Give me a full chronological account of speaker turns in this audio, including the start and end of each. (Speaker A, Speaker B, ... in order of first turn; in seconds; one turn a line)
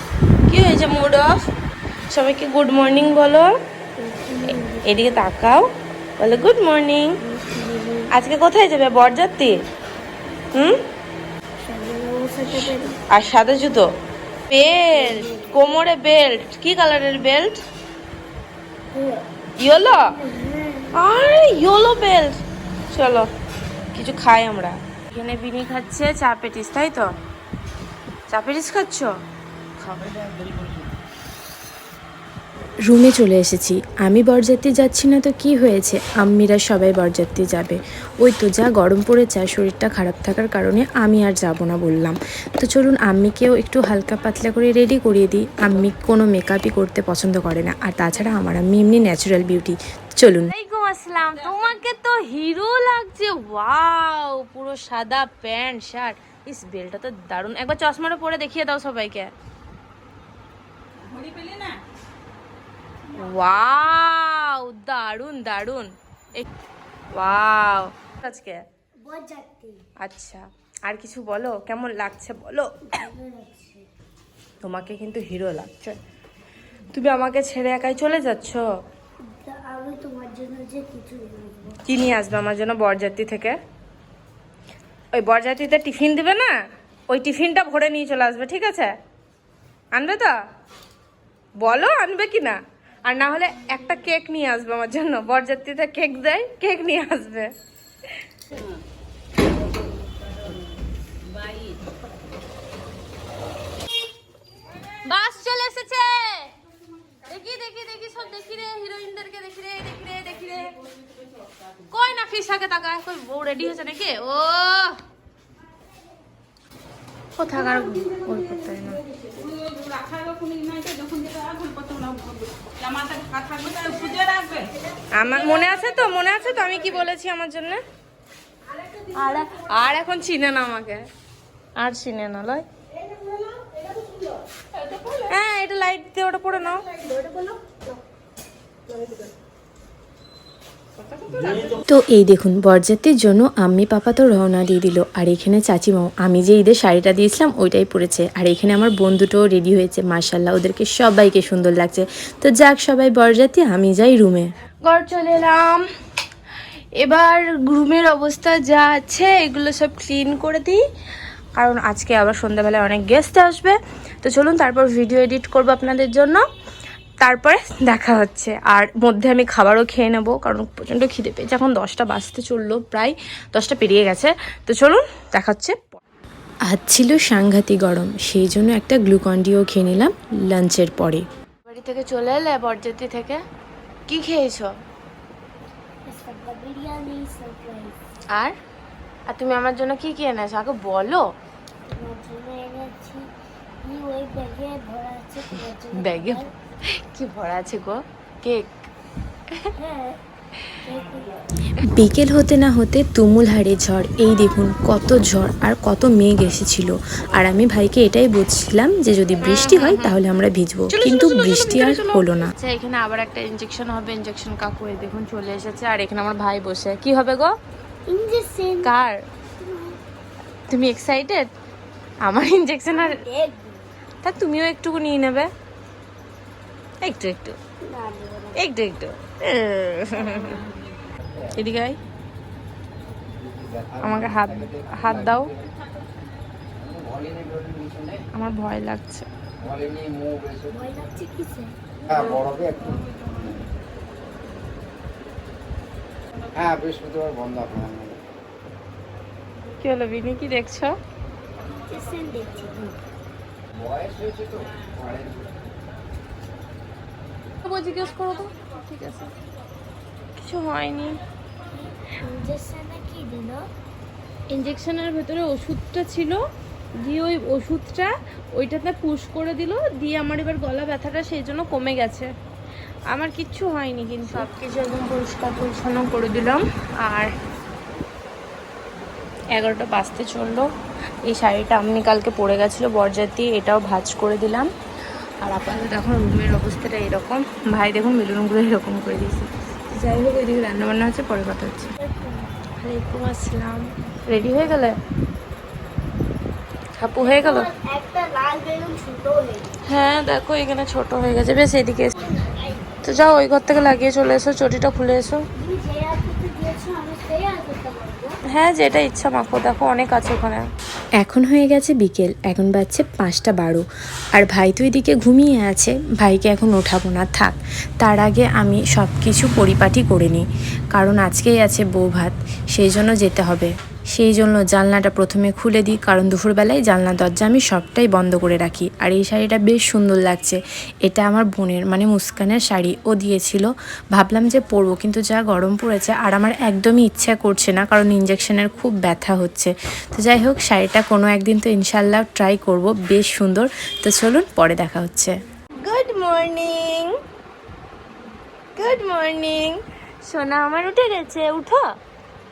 Speaker A: 0.5-1.4
Speaker A: 2.1-3.5
Speaker B: 4.0-4.8
Speaker A: 4.5-5.7
Speaker A: 6.2-7.2
Speaker B: 7.2-8.1
Speaker A: 8.1-9.6
Speaker A: 10.5-10.8
Speaker B: 11.7-13.0
Speaker A: 13.1-13.9
Speaker A: 14.5-17.6
Speaker B: 15.1-15.5
Speaker B: 18.9-19.2
Speaker A: 19.6-20.1
Speaker B: 20.0-21.0
Speaker A: 20.9-22.4
Speaker A: 22.9-23.3
Speaker A: 23.9-27.1
Speaker A: 28.3-29.1
Speaker A: 29.8-30.1
Speaker C: 32.9-50.5
Speaker A: 50.5-59.3
Speaker A: 63.1-66.4
Speaker A: 67.1-68.6
Speaker B: 69.0-69.8
Speaker A: 70.0-73.0
Speaker B: 72.9-73.8
Speaker A: 74.6-76.0
Speaker A: 76.9-78.7
Speaker B: 79.2-81.8
Speaker A: 81.8-83.6
Speaker A: 85.1-86.5
Speaker A: 87.1-88.9
Speaker A: 89.9-90.3
Speaker A: 91.6-97.5
Speaker A: 105.0-106.5
Speaker A: 107.3-110.7
Speaker A: 111.9-115.0
Speaker A: 117.4-119.0
Speaker A: 123.5-124.5
Speaker A: 125.1-127.8
Speaker A: 129.1-131.1
Speaker A: 131.8-132.6
Speaker A: 135.1-136.8
Speaker A: 141.1-141.8
Speaker C: 141.8-154.5
Speaker A: 154.8-155.8
Speaker A: 157.0-160.8
Speaker A: 161.6-166.4
Speaker A: 167.2-176.0
Speaker C: 176.7-181.2
Speaker A: 181.7-183.4
Speaker A: 184.1-184.7
Speaker B: 186.1-188.0
Speaker A: 189.3-191.2
Speaker B: 191.9-193.3
Speaker B: 193.8-196.5
Speaker A: 196.0-198.7
Speaker B: 199.8-200.2
Speaker B: 200.8-201.4
Speaker C: 201.8-212.5
Speaker A: 209.4-210.1
Speaker A: 210.9-217.5
Speaker B: 218.1-218.9
Speaker A: 218.8-219.2
Speaker B: 219.6-219.9
Speaker A: 220.7-221.5
Speaker A: 222.2-223.2
Speaker B: 222.9-223.9
Speaker A: 224.2-225.5
Speaker A: 227.0-227.6
Speaker B: 227.8-228.6
Speaker A: 228.6-230.7
Speaker A: 231.5-232.0
Speaker D: 233.6-234.0
Speaker A: 234.0-235.5
Speaker D: 236.9-238.2
Speaker A: 238.3-239.3
Speaker D: 239.7-240.6
Speaker B: 240.7-242.2
Speaker A: 242.1-242.4
Speaker D: 242.3-243.0
Speaker D: 246.6-248.2
Speaker A: 249.8-250.9
Speaker B: 251.9-252.9
Speaker D: 253.8-255.4
Speaker A: 257.6-259.3
Speaker A: 260.4-261.2
Speaker B: 262.2-263.7
Speaker A: 264.5-266.4
Speaker A: 267.0-272.3
Speaker A: 273.1-277.3
Speaker A: 279.5-280.7
Speaker A: 281.3-284.7
Speaker A: 285.4-291.9
Speaker B: 292.0-292.6
Speaker A: 292.8-294.9
Speaker A: 297.0-297.7
Speaker B: 297.2-299.8
Speaker A: 299.9-302.1
Speaker A: 303.0-305.4
Speaker B: 305.6-308.4
Speaker A: 308.5-310.7
Speaker C: 311.2-345.3
Speaker A: 345.8-347.1
Speaker A: 348.8-351.8